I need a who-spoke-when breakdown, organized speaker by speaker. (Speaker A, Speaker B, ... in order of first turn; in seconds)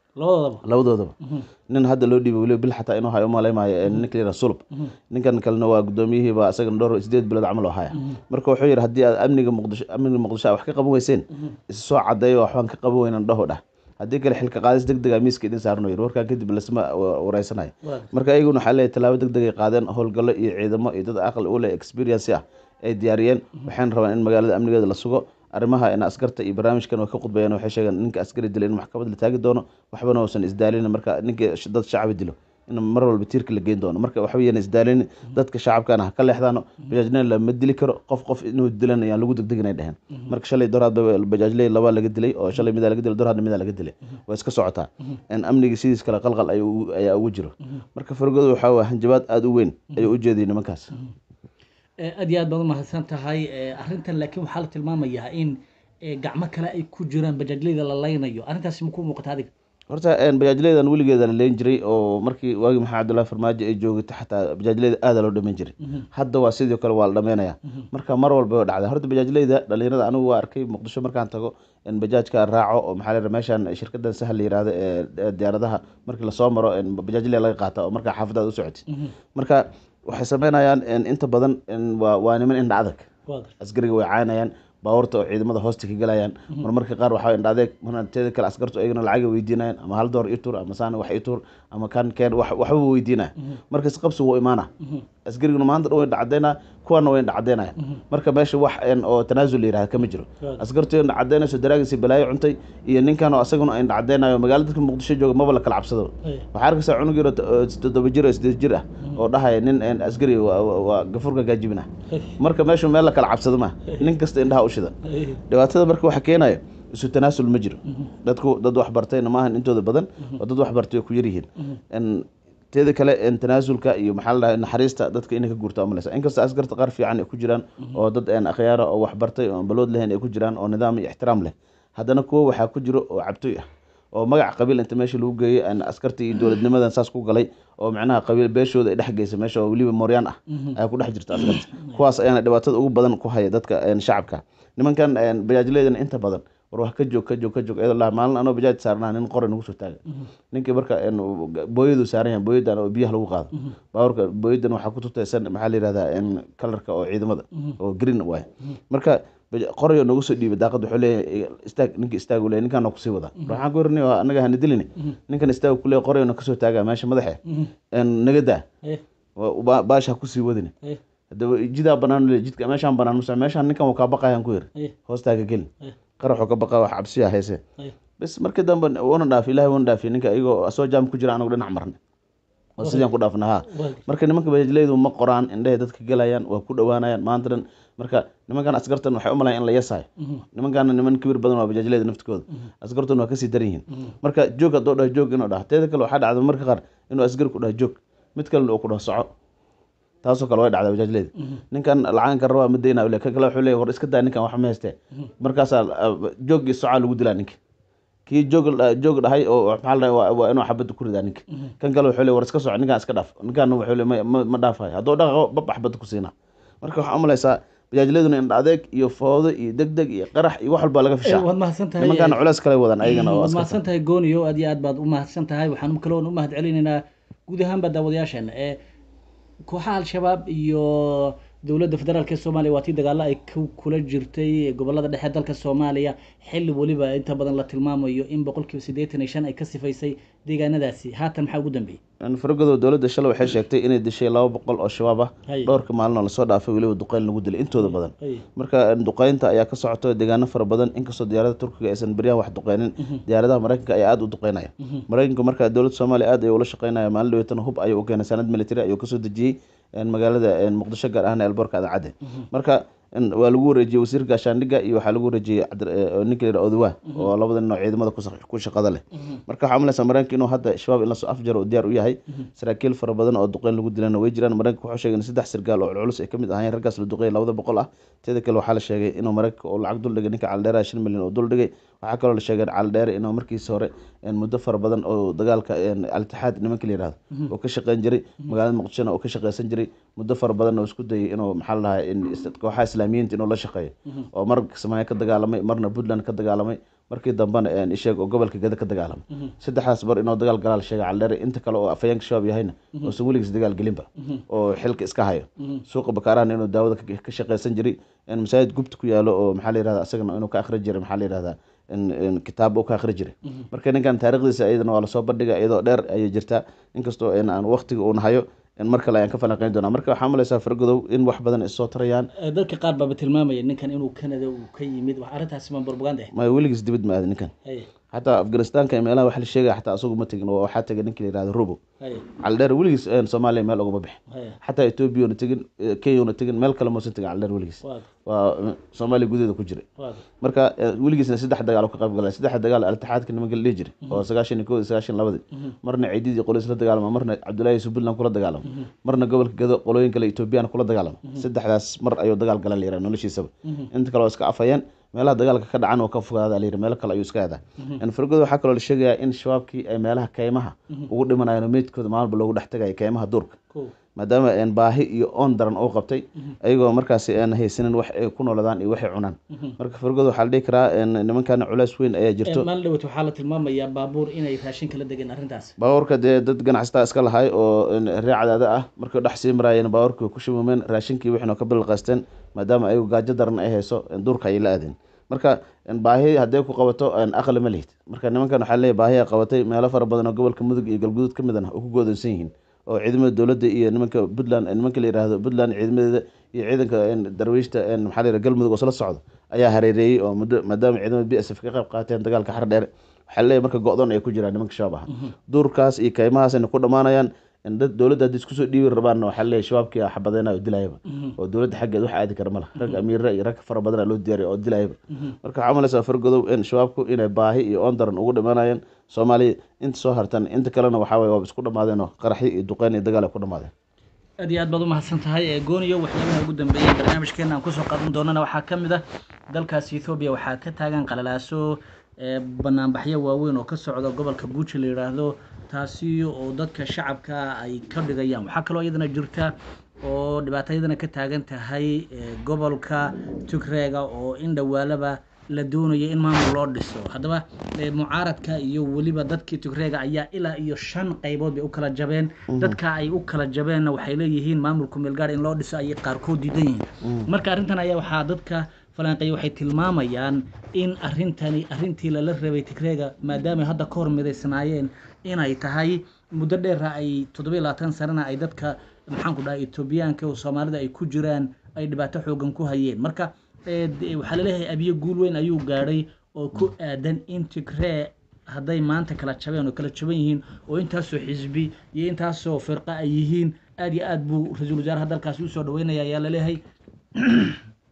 Speaker A: 0.2-0.6, 52.0-59.5, 115.0-115.4, 141.3-142.0, 182.8-183.1, 183.7-184.0, 221.2-222.4, 223.0-228.8, 229.7-242.0, 245.5-245.8, 247.8-248.4, 322.4-326.3, 332.0-332.2, 334.3-334.6, 337.8-338.1, 340.0-340.2, 372.5-375.7, 411.1-411.3, 424.4-486.6, 487.1-487.6
Speaker B: 0.6-1.1, 1.7-50.9, 59.9-78.8, 79.3-83.0, 83.6-94.7, 95.2-111.9, 112.4-114.9, 115.5-133.6, 134.1-150.0, 150.5-167.4, 167.9-168.6, 169.4-170.7, 171.3-175.7, 176.2-177.6, 178.2-182.0, 182.8-199.3, 200.2-207.6, 208.3-221.5, 222.0-223.8, 242.2-322.3, 326.3-327.5, 328.1-331.8, 332.4-339.8, 340.4-363.6, 364.2-372.6, 375.8-423.7, 452.5-452.8, 457.0-457.3